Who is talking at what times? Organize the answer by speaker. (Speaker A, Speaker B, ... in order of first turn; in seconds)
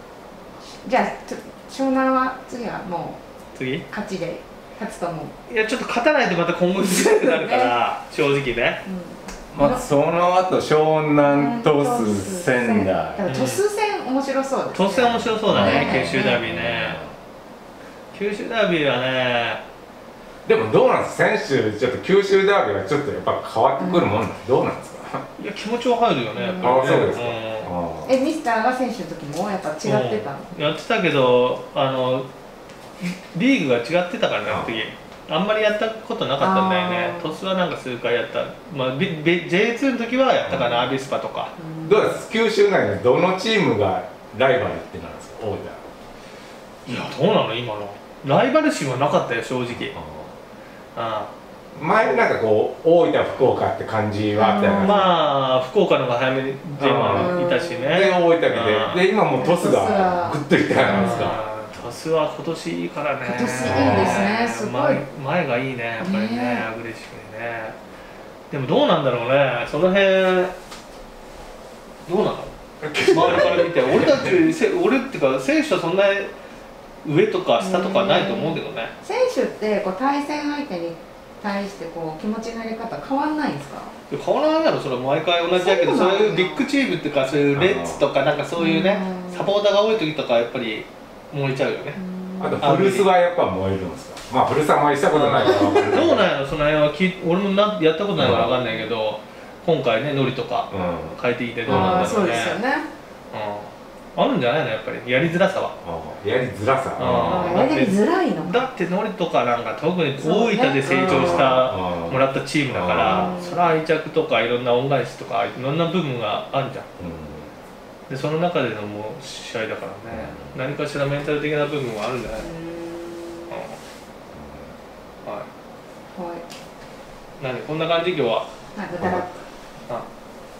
Speaker A: 0.8-3.2, 3.9-5.3, 6.8-7.7, 8.8-9.8, 11.2-16.4, 23.8-24.1, 26.3-27.0, 28.0-30.5, 36.4-37.4, 41.6-42.2, 54.3-55.1, 57.1-57.9, 59.3-61.3, 63.2-65.0, 66.0-66.7, 77.6-83.9, 85.5-86.7, 88.5-89.5, 92.0-92.7, 95.4-95.9, 98.4-98.8, 101.7-102.9, 107.2-108.7, 110.2-111.6, 113.0-113.7, 122.4-123.6, 126.1-126.4, 128.7-129.3
Speaker B: 3.5-3.9, 5.5-8.8, 13.3-13.6, 14.7-17.0, 18.1-19.6, 25.4-27.7, 29.8-32.3, 33.0-41.5, 46.9-50.0, 50.9-51.3, 54.7-59.0, 60.8-67.8, 68.5-70.5, 72.0-72.5, 73.0-76.3, 77.0-78.9, 84.1-92.0, 92.6-93.1, 95.1-102.6, 103.3-105.8, 107.0-116.8, 118.1-122.5, 123.5-123.8, 127.4-128.4
Speaker C: 9.5-13.2, 15.4-17.1, 20.4-25.2, 26.6-28.1, 34.5-34.8, 40.4-40.9, 41.8-45.8, 49.7-50.3, 51.7-55.1, 56.8-57.4, 57.9-61.4, 63.6-64.3, 72.8-74.4, 87.5-88.0, 92.4-96.3, 98.2-98.5, 100.7-102.1, 105.8-107.7, 111.0-113.4, 117.0-117.5, 120.1-120.6, 124.3-124.7